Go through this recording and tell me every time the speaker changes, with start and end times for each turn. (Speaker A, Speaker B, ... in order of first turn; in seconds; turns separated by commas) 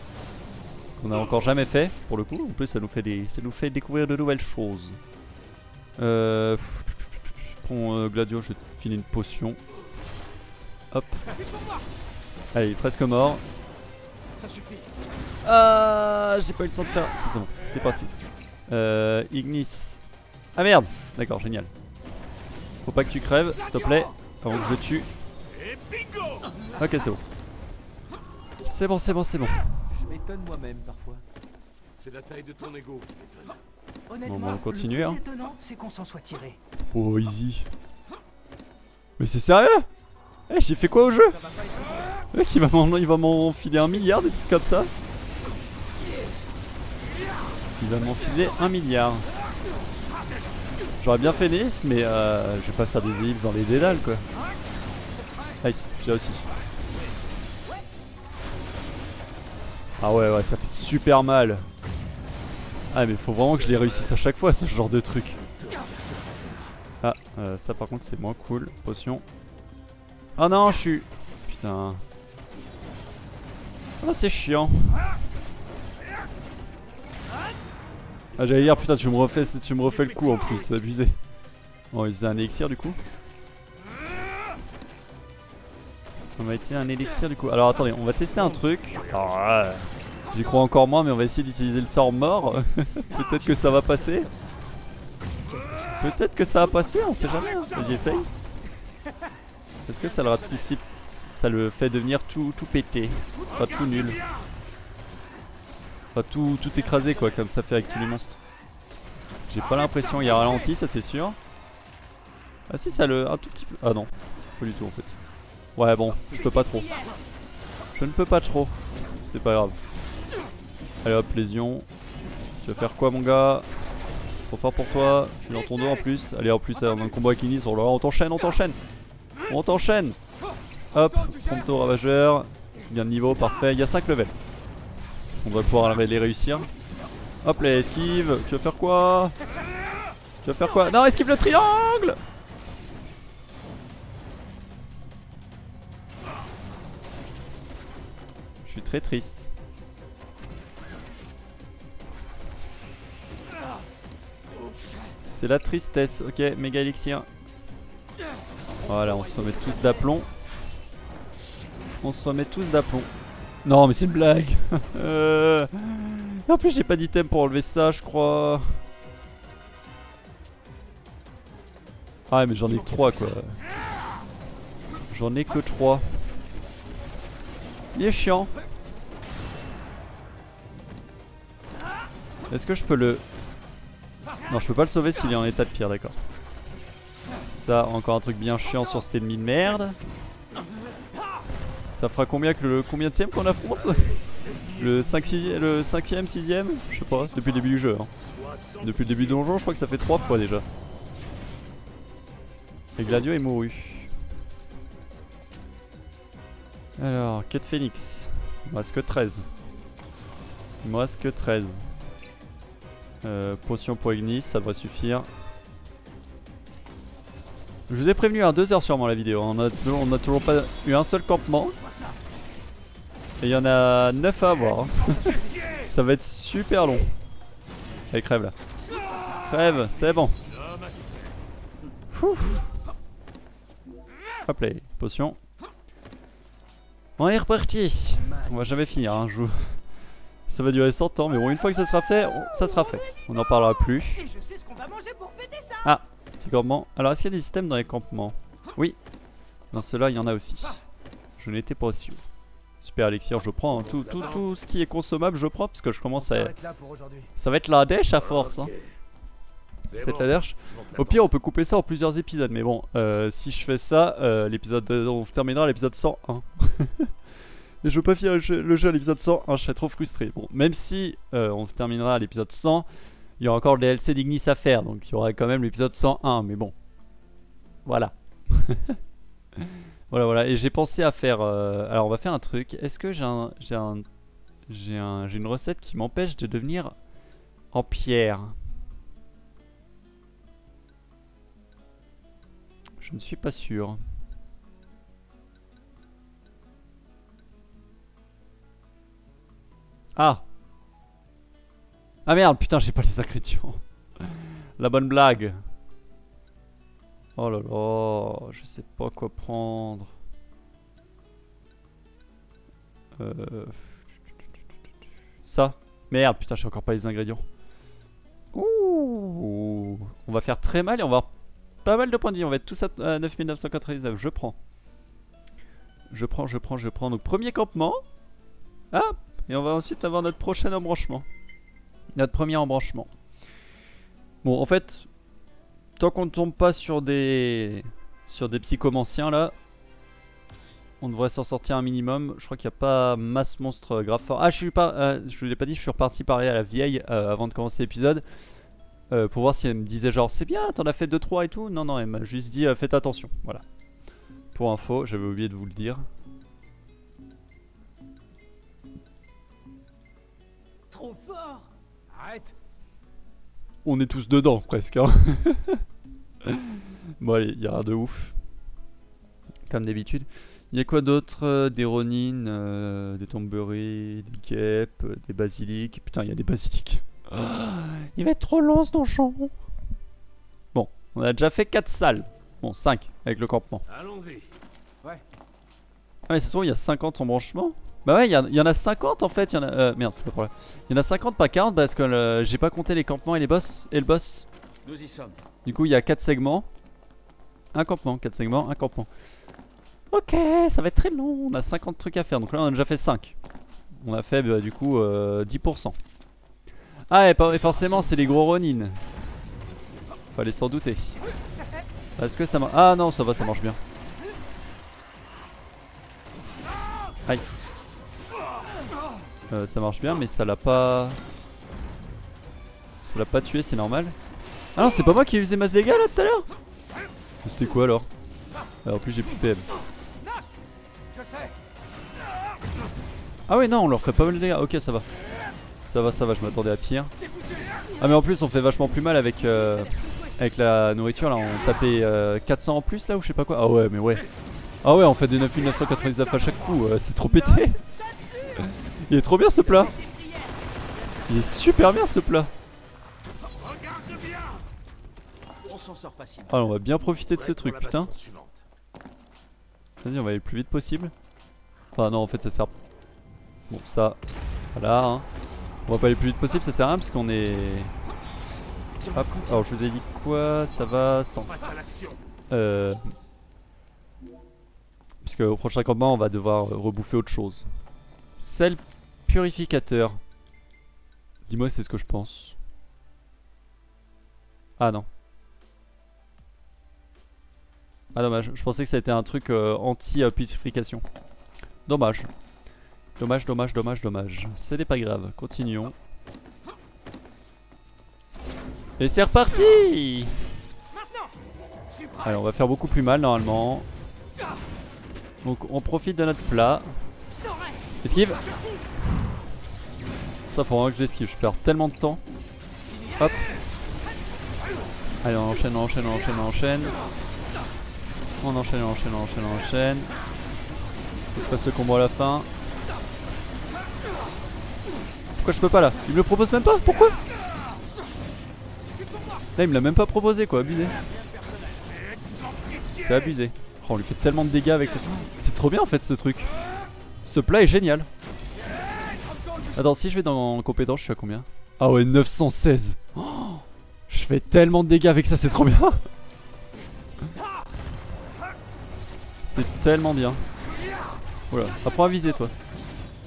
Speaker A: 1.0-5.0, Speaker A: 6.0-9.6, Speaker A: 10.9-11.2, Speaker B: 11.3-11.8, Speaker A: 12.5-13.4, Speaker B: 14.3-14.9, Speaker A: 15.4-18.1, Speaker A: 18.7-20.0, Speaker A: 20.6-21.7, Speaker A: 22.8-25.1, Speaker C: 25.5-26.6, Speaker A: 26.8-27.2, Speaker A: 28.6-29.7, Speaker B: 29.9-31.2, Speaker C: 31.9-33.6, Speaker B: 34.1-36.6, Speaker A: 34.2-35.2, Speaker A: 36.9-37.7, Speaker A: 39.2-39.9, Speaker A: 40.5-41.4, Speaker B: 41.2-42.2, Speaker A: 42.3-44.9, Speaker A: 47.8-49.3, Speaker A: 51.0-54.2, Speaker A: 55.6-56.4, Speaker A: 60.0-61.7, Speaker A: 62.9-65.4, Speaker C: 63.5-64.2, Speaker C: 65.6-66.7, Speaker A: 67.0-69.2, Speaker A: 70.4-72.0, Speaker A: 74.0-75.2, Speaker A: 78.4-81.2, Speaker C: 78.4-80.4, Speaker A: 81.9-83.0, Speaker A: 86.4-94.3, Speaker B: 93.1-94.7, Speaker B: 95.5-96.1, Speaker A: 95.9-98.3, Speaker A: 99.9-104.2, Speaker B: 100.1-100.7, Speaker A: 106.1-108.4, Speaker A: 109.5-111.4, Speaker A: 112.7-115.2, Speaker A: 115.8-116.9, Speaker A: 118.0-119.8, Speaker A: 121.0-121.9, Speaker A: 122.6-123.7, Speaker A: 124.5-128.8, Speaker A: 129.5-130.2, Speaker A: 130.9-134.3, Speaker A: 135.4-136.7, Speaker A: 137.4-139.3, Speaker A: 140.4-142.2, Speaker A: 148.6-149.5, Speaker A: 155.2-157.3, Speaker B: 158.8-160.2, Speaker A: 158.8-160.3, Speaker A: 162.0-163.1, Speaker A: 163.6-168.8, Speaker A: 172.3-173.6, Speaker B: 172.7-173.4, Speaker A: 175.1-176.2, Speaker A: 177.9-178.5, Speaker A: 182.5-183.2, Speaker A: 184.5-186.2, Speaker A: 187.5-190.0, Speaker A: 191.9-194.1, Speaker C: 193.8-195.7, Speaker A: 194.8-198.1, Speaker B: 197.3-197.6, Speaker C: 198.2-199.4, Speaker A: 198.8-200.7, Speaker A: 203.0-204.1, Speaker A: 207.0-209.5, Speaker A: 210.8-211.9, Speaker A: 213.2-215.3, Speaker A: 217.9-221.8, Speaker A: 223.4-227.1, Speaker B: 225.1-225.5, Speaker A: 228.1-228.6, Speaker A: 229.2-230.4, Speaker C: 230.4-231.3, Speaker A: 232.1-232.7, Speaker A: 234.4-235.4, Speaker A: 237.2-239.8, Speaker B: 238.2-239.2, Speaker A: 240.5-244.3, Speaker B: 244.1-246.0, Speaker A: 245.8-249.0, Speaker A: 249.7-250.8, Speaker A: 251.4-252.2, Speaker A: 252.8-256.5, Speaker C: 253.7-254.5, Speaker B: 256.1-257.3, Speaker A: 257.4-258.7, Speaker C: 258.1-258.9, Speaker C: 259.9-261.3, Speaker A: 259.9-267.1, Speaker A: 267.8-272.9, Speaker A: 273.4-276.7, Speaker A: 277.9-279.0, Speaker A: 279.6-284.0, Speaker A: 284.7-286.9, Speaker A: 287.7-288.6, Speaker A: 293.0-294.0, Speaker A: 300.1-300.4, Speaker A: 302.2-305.6, Speaker A: 307.4-310.1, Speaker A: 313.2-313.9, Speaker A: 315.4-317.4, Speaker A: 318.5-321.3, Speaker A: 321.8-324.6, Speaker A: 326.1-328.0, Speaker A: 328.9-331.2, Speaker A: 332.1-333.1, Speaker A: 334.4-335.1, Speaker A: 336.0-339.5, Speaker A: 341.0-348.2, Speaker A: 349.1-353.6, Speaker A: 354.5-356.0, Speaker B: 360.9-362.5, Speaker A: 363.8-365.8, Speaker A: 366.4-368.3, Speaker A: 369.7-379.5, Speaker A: 380.7-383.8, Speaker C: 383.9-384.5, Speaker A: 386.3-394.5, Speaker B: 394.8-395.4, Speaker A: 395.6-396.7, Speaker A: 397.7-399.1, Speaker A: 400.1-403.4, Speaker A: 404.0-405.9, Speaker A: 407.1-409.0, Speaker B: 407.9-408.3, Speaker A: 410.3-411.2, Speaker A: 412.2-413.8, Speaker A: 419.5-421.2, Speaker A: 423.1-424.1, Speaker A: 424.7-426.4, Speaker A: 427.4-428.1, Speaker A: 428.8-429.7, Speaker B: 431.1-431.5, Speaker A: 433.5-435.1, Speaker A: 435.9-437.1, Speaker A: 438.0-444.2, Speaker A: 444.8-447.8, Speaker B: 447.4-448.7, Speaker A: 448.6-449.9, Speaker B: 449.6-451.8, Speaker A: 451.3-452.5, Speaker C: 453.8-454.5, Speaker B: 455.6-456.7, Speaker A: 456.5-458.1, Speaker C: 457.3-458.6, Speaker A: 460.0-461.1, Speaker A: 461.9-462.7, Speaker A: 463.7-464.2, Speaker A: 464.7-465.2, Speaker A: 465.9-467.9, Speaker B: 469.0-469.9, Speaker A: 469.1-471.6, Speaker C: 471.4-472.2, Speaker A: 472.5-473.1, Speaker A: 475.2-477.6, Speaker A: 478.4-480.2, Speaker A: 481.5-482.6, Speaker A: 484.8-485.1, Speaker A: 488.1-491.0, Speaker A: 491.9-492.3, Speaker A: 493.2-495.9, Speaker A: 499.0-500.4, Speaker B: 500.9-501.3, Speaker B: 501.9-502.3, Speaker A: 502.2-503.9, Speaker A: 505.4-506.9, Speaker B: 507.4-507.9, Speaker A: 508.0-508.4, Speaker A: 509.0-509.4, Speaker A: 510.5-512.2, Speaker A: 513.2-513.5, Speaker A: 515.2-517.0, Speaker A: 518.4-520.1, Speaker A: 521.3-522.5, Speaker A: 525.4-527.2, Speaker B: 529.1-529.4, Speaker A: 529.5-531.0, Speaker B: 531.0-532.0, Speaker C: 532.1-532.8, Speaker A: 532.9-536.5, Speaker A: 537.2-538.1, Speaker B: 538.6-539.5, Speaker A: 539.7-546.0, Speaker A: 549.4-550.4, Speaker A: 551.5-552.5